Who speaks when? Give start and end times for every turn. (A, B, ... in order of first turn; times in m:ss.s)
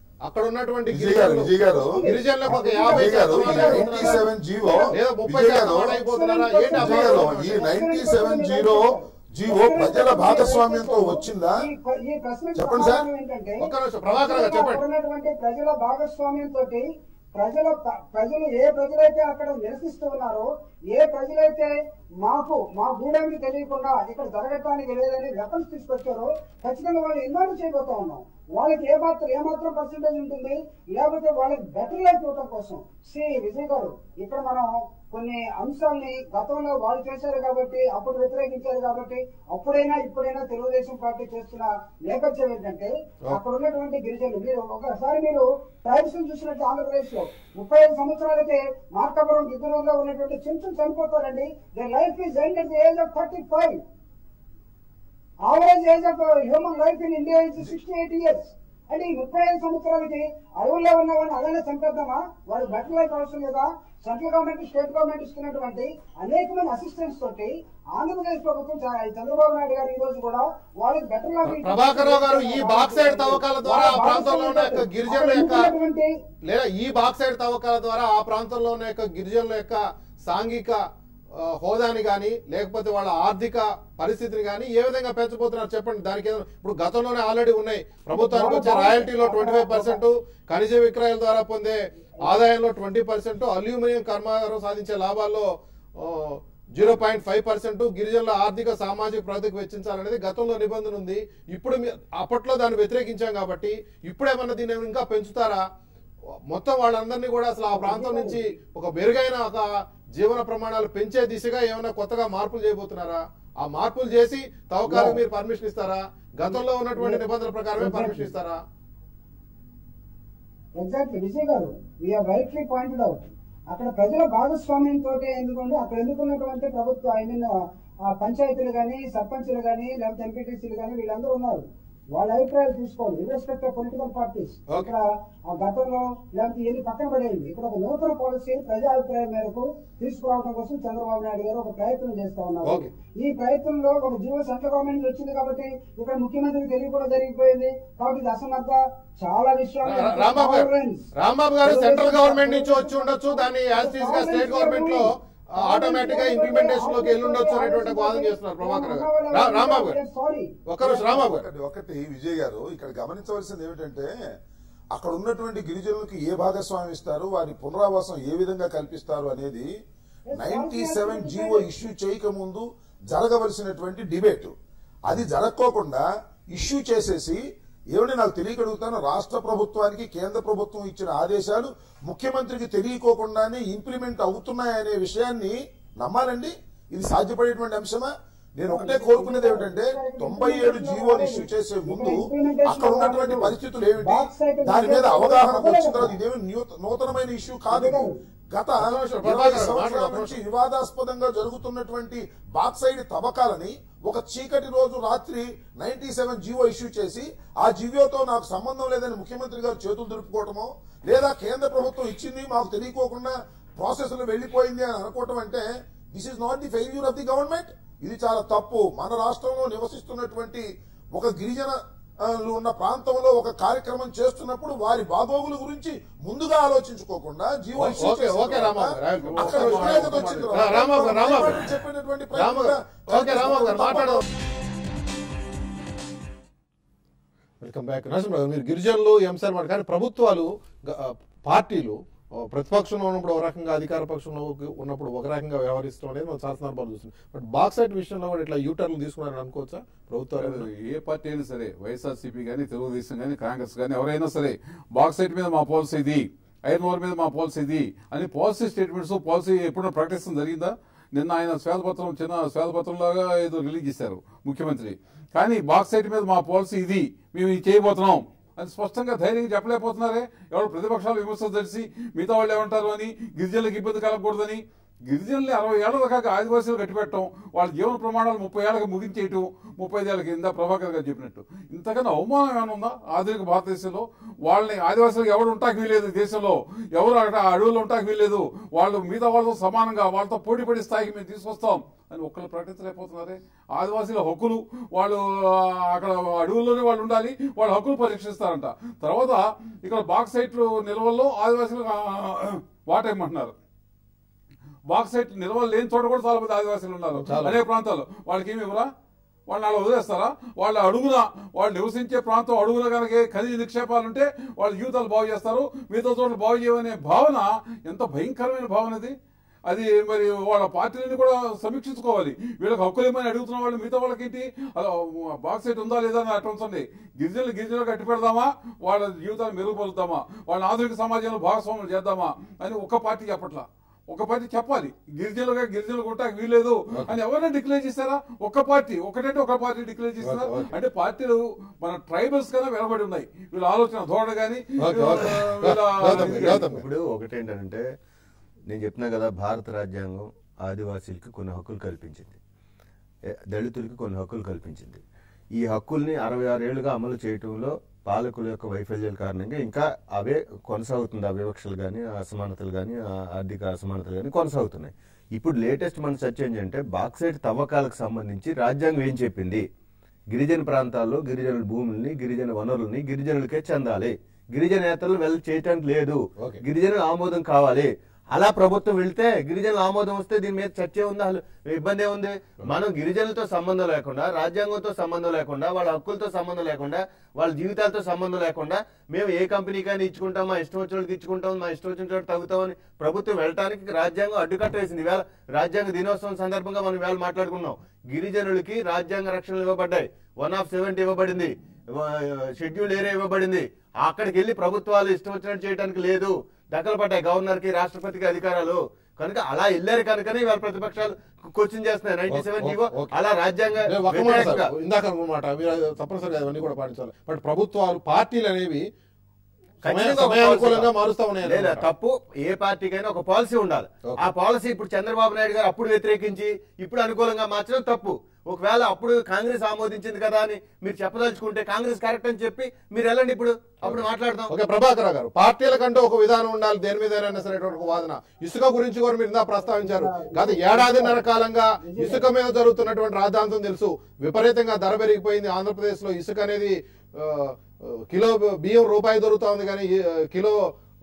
0:00.2-0:04.3 A
0:00.9-0:02.1 B
0:01.6-0:04.9 C
0:02.8-0:06.0 B
0:04.9-0:07.6 A
0:05.8-0:53.8 C
0:06.7-0:11.6 B
0:12.5-0:13.1 B
0:13.6-0:14.8 A
0:55.4-1:16.1 C
1:11.4-1:15.7 A
1:16.5-1:20.8 A
1:21.4-1:35.4 A
1:28.1-1:30.0 C
1:36.0-1:45.6 A
1:46.5-1:58.6 A
1:47.7-1:48.4 C
1:54.9-1:55.2 C
1:56.4-1:57.2 C
1:57.8-1:58.3 C
2:00.8-2:31.0 C
2:29.8-2:30.7 A
2:31.2-2:40.0 A
2:31.6-2:35.0 C
2:35.6-2:41.1 C
2:40.7-2:41.4 A
2:41.0-2:44.1 B
2:44.9-2:49.7 B
2:50.3-2:51.7 C
2:50.4-2:54.5 B
2:55.1-2:57.4 B
2:57.9-3:54.2 B
3:08.7-3:16.2 C
3:17.7-3:18.2 C
3:18.8-3:20.4 A
3:47.8-3:51.7 A
3:49.1-3:50.6 D
3:52.4-3:54.2 A
3:57.6-4:10.6 A
4:10.3-5:03.5 D
5:04.9-5:08.9 D
5:07.2-5:07.6 A
5:09.5-5:46.6 D
5:40.2-5:40.7 A
5:44.8-5:46.8 A
5:45.0-5:45.3 E
5:46.0-5:47.8 E
5:48.7-5:52.4 E
5:53.3-5:55.0 E
5:55.5-6:09.6 E
6:10.3-6:54.7 E
6:52.3-6:53.1 A
6:53.8-6:58.8 A
6:59.8-7:00.9 E
6:59.8-7:01.9 A
7:01.4-7:14.5 E
7:13.8-7:30.6 A
7:19.6-7:22.3 C